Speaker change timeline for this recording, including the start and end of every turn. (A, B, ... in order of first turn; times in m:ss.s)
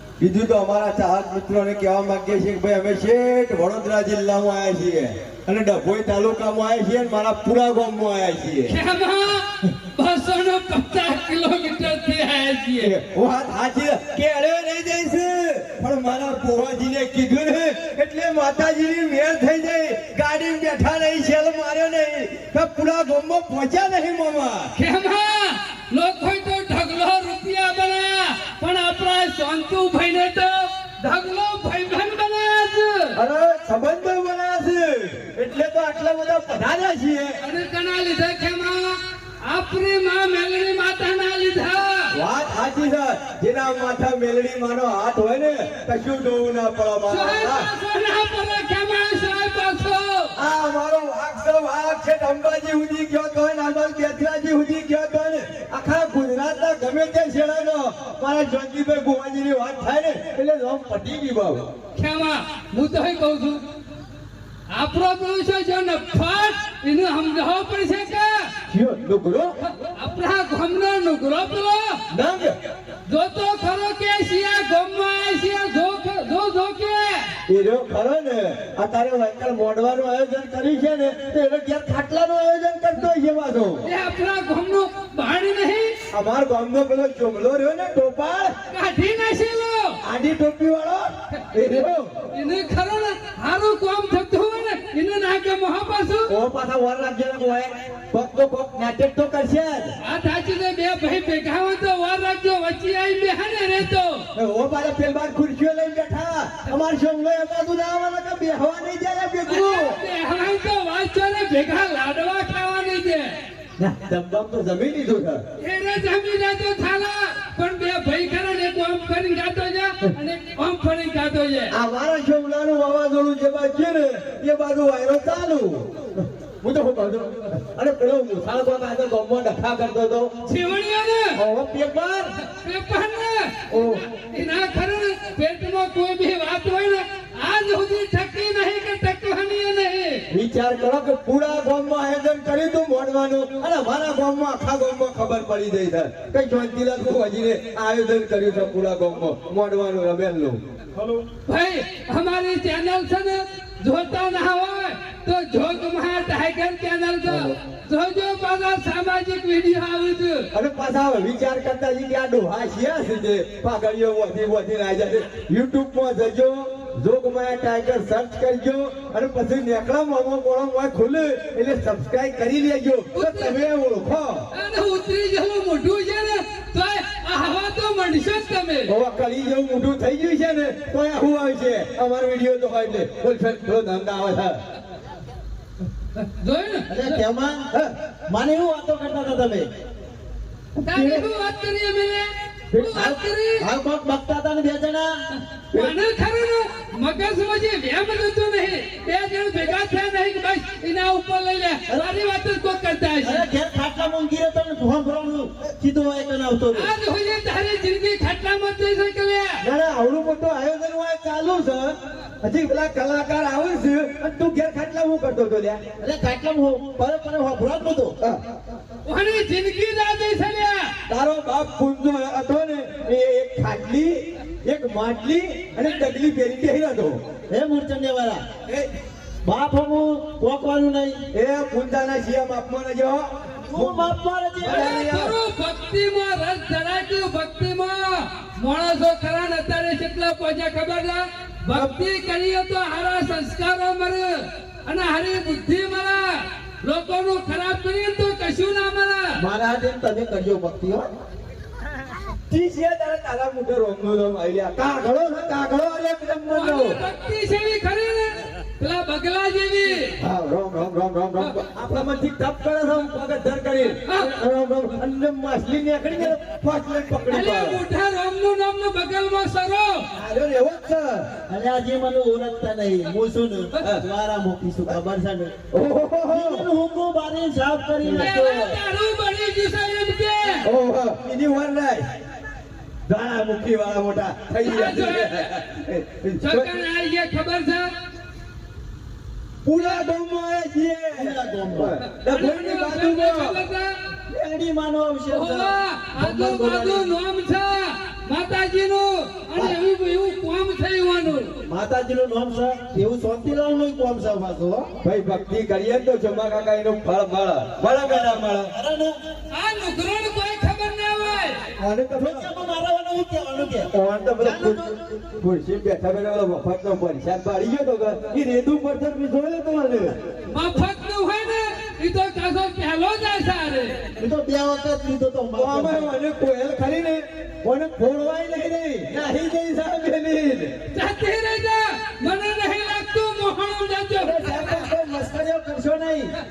0:00.2-0:08.7 A
0:08.7-0:13.0 B
0:12.8-0:24.7 A
0:24.7-0:33.2 B
0:33.2-0:37.4 A
0:37.4-0:42.1 B
0:42.1-0:47.7 A
0:47.1-0:50.3 B
0:50.4-1:01.7 A
1:01.9-1:03.6 B
1:04.7-1:08.5 B
1:08.7-1:09.6 A
1:09.9-1:12.0 B
1:12.1-1:12.6 A
1:13.1-1:17.3 B
1:17.5-1:23.8 A
1:23.8-1:26.0 B
1:26.1-1:28.6 A
1:28.7-1:30.0 B
1:30.0-1:32.1 A
1:32.3-1:36.3 B
1:36.3-1:39.9 A
1:40.0-1:44.3 B
1:44.4-1:50.0 A
1:49.5-1:53.4 B
1:53.8-1:55.4 A
1:55.6-2:01.7 B
2:01.7-2:10.4 A
2:10.4-2:11.4 B
2:11.4-2:12.3 A
2:12.5-2:20.3 B
2:13.7-2:14.0 A
2:20.3-2:30.6 A
2:31.5-2:40.5 B
2:37.3-2:37.5 A
2:40.5-2:54.5 A
2:53.1-2:53.6 B
2:54.5-2:58.9 B
2:58.9-3:04.6 A
3:06.2-3:07.2 B
3:06.9-3:07.7 C
3:08.3-3:09.7 C
3:10.8-3:11.3 A
3:10.8-3:13.7 B
3:12.7-3:13.0 A
3:12.9-3:15.2 C
3:15.7-3:23.4 B
3:23.2-3:26.9 C
3:26.7-3:29.6 B
3:29.6-3:35.8 A
3:36.0-3:38.2 C
3:39.0-3:40.9 B
3:41.1-3:47.2 A
3:47.5-3:48.4 C
3:49.4-3:51.2 C
3:51.3-3:55.4 A
3:53.7-3:55.1 C
3:54.6-4:09.4 B
4:09.4-4:11.1 C
4:12.5-4:17.0 A
4:16.5-4:20.1 B
4:20.2-4:27.8 A
4:24.1-4:24.4 B
4:27.3-4:30.1 B
4:30.2-4:31.3 A
4:31.5-4:35.5 C
4:33.8-4:34.0 A
4:35.7-4:36.7 A
4:36.3-4:38.8 C
4:38.1-4:40.7 B
4:40.6-4:42.1 A
4:43.1-4:46.7 A
4:44.6-4:45.6 B
4:46.4-4:47.9 B
4:49.6-4:53.6 A
4:51.1-4:52.0 C
4:52.2-4:54.0 B
4:54.3-4:57.1 C
4:55.3-5:01.5 B
5:01.7-5:04.9 C
5:05.0-5:08.7 A
5:08.0-5:09.1 C
5:09.5-5:11.6 B
5:11.8-5:12.5 A
5:12.1-5:15.1 C
5:13.9-5:20.2 A
5:20.5-5:24.0 B
5:24.2-5:26.1 C
5:25.6-5:30.7 A
5:30.9-5:34.8 B
5:34.2-5:36.3 C